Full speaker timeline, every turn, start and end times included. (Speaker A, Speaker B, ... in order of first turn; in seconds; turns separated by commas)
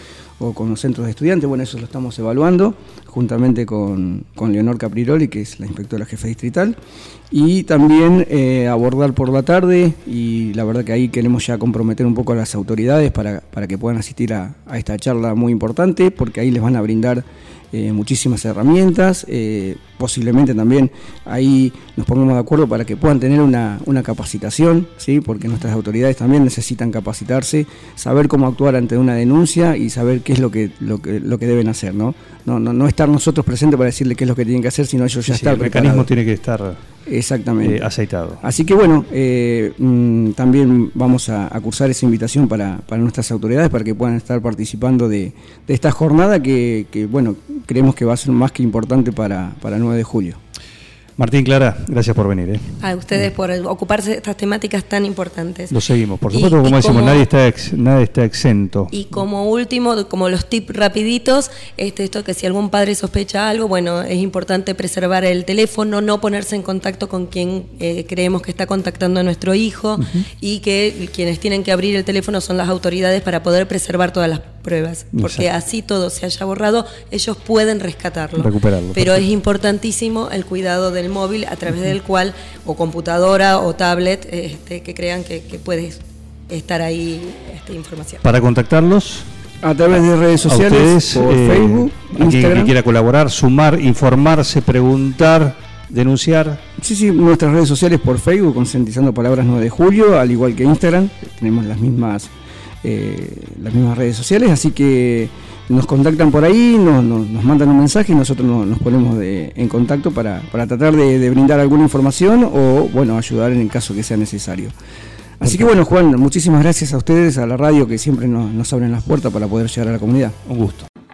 Speaker A: 0.4-6.8, Speaker A: 7.3-36.1, Speaker B: 35.3-36.8, Speaker A: 37.0-37.9, Speaker B: 37.6-38.4, Speaker A: 38.4-50.4, Speaker B: 51.2-52.8, Speaker C: 52.8-55.8, Speaker B: 55.7-58.9, Speaker C: 56.3-57.2, Speaker C: 58.9-88.2, Speaker B: 70.0-70.2, Speaker B: 75.1-75.5, Speaker B: 78.3-79.2, Speaker B: 88.2-89.3, Speaker A: 89.6-92.7, Speaker B: 90.4-96.6, Speaker A: 96.8-102.3, Speaker A: 102.8-114.7, Speaker A: 115.4-120.4, Speaker B: 115.4-115.7, Speaker B: 120.4-120.9